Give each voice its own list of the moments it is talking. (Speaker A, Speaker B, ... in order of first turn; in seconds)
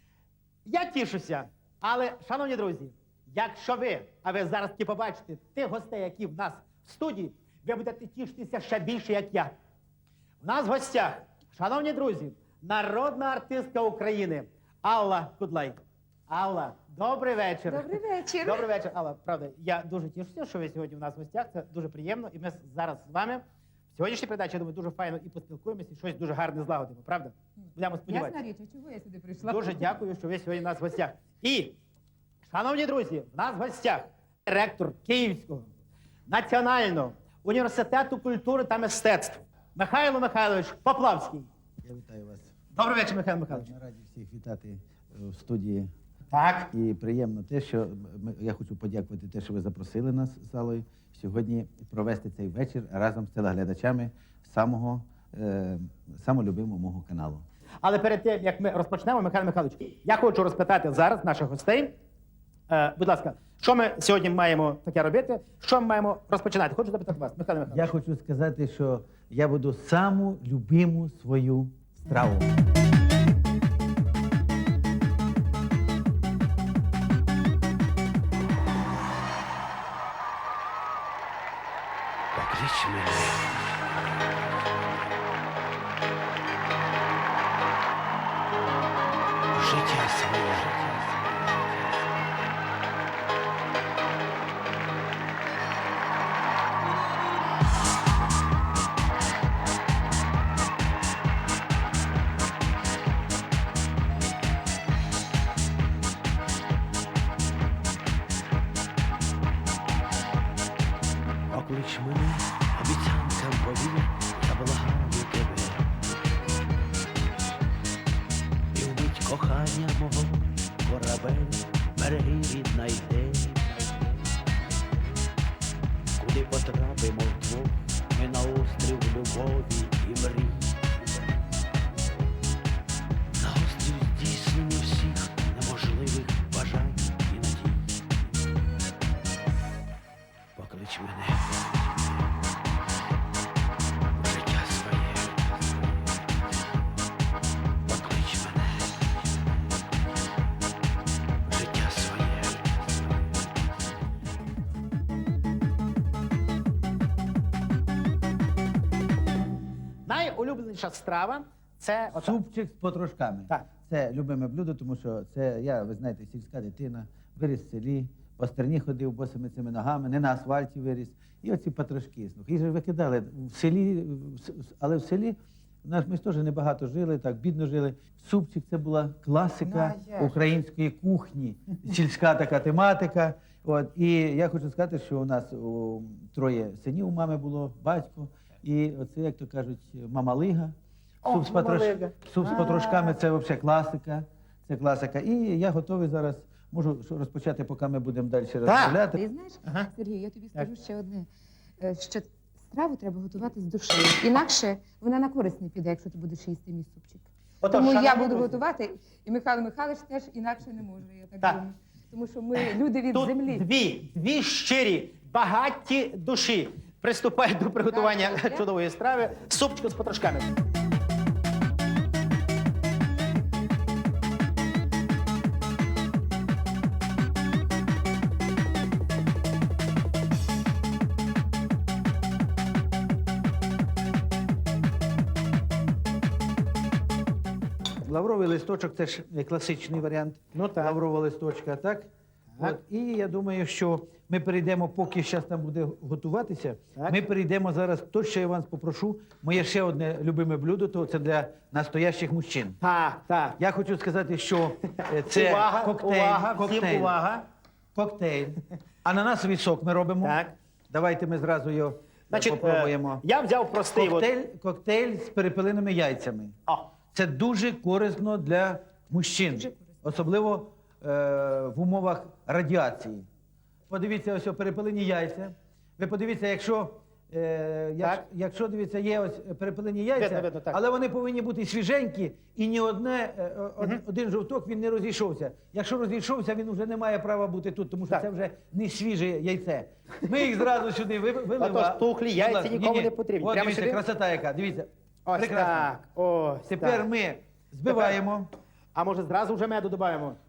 Speaker A: 0.7-9.6, 10.4-28.4, 29.4-31.8, 32.5-35.7, 36.3-41.5, 42.7-43.7, 46.3-46.7, 57.8-61.9, 62.7-67.9, 160.1-162.4, 179.7-180.3, 191.2-193.2, 198.7-199.0, 207.6-208.6, 213.1-220.5, 240.5-240.9, 252.8-253.6, 255.3-257.4, 260.2-260.5, 262.3-264.3, 280.2-280.8, 291.6-294.0, 295.2-297.1, 297.9-298.1, 298.9-300.4
Speaker B: 17.7-18.7, 28.1-29.9, 199.1-213.7, 217.9-218.7
Speaker C: 41.8-42.5, 43.5-45.9, 46.7-57.4, 67.7-72.5, 162.2-199.2, 238.0-252.8, 253.6-257.1, 257.9-260.4, 260.9-263.2, 263.9-266.5, 267.1-273.3, 273.9-295.9, 296.7-298.5
Speaker D: 82.3-83.7, 89.5-91.9, 111.5-116.0, 118.7-124.1, 126.2-131.2, 133.3-138.2, 140.6-142.3, 144.2-146.3, 147.9-149.6, 151.4-153.5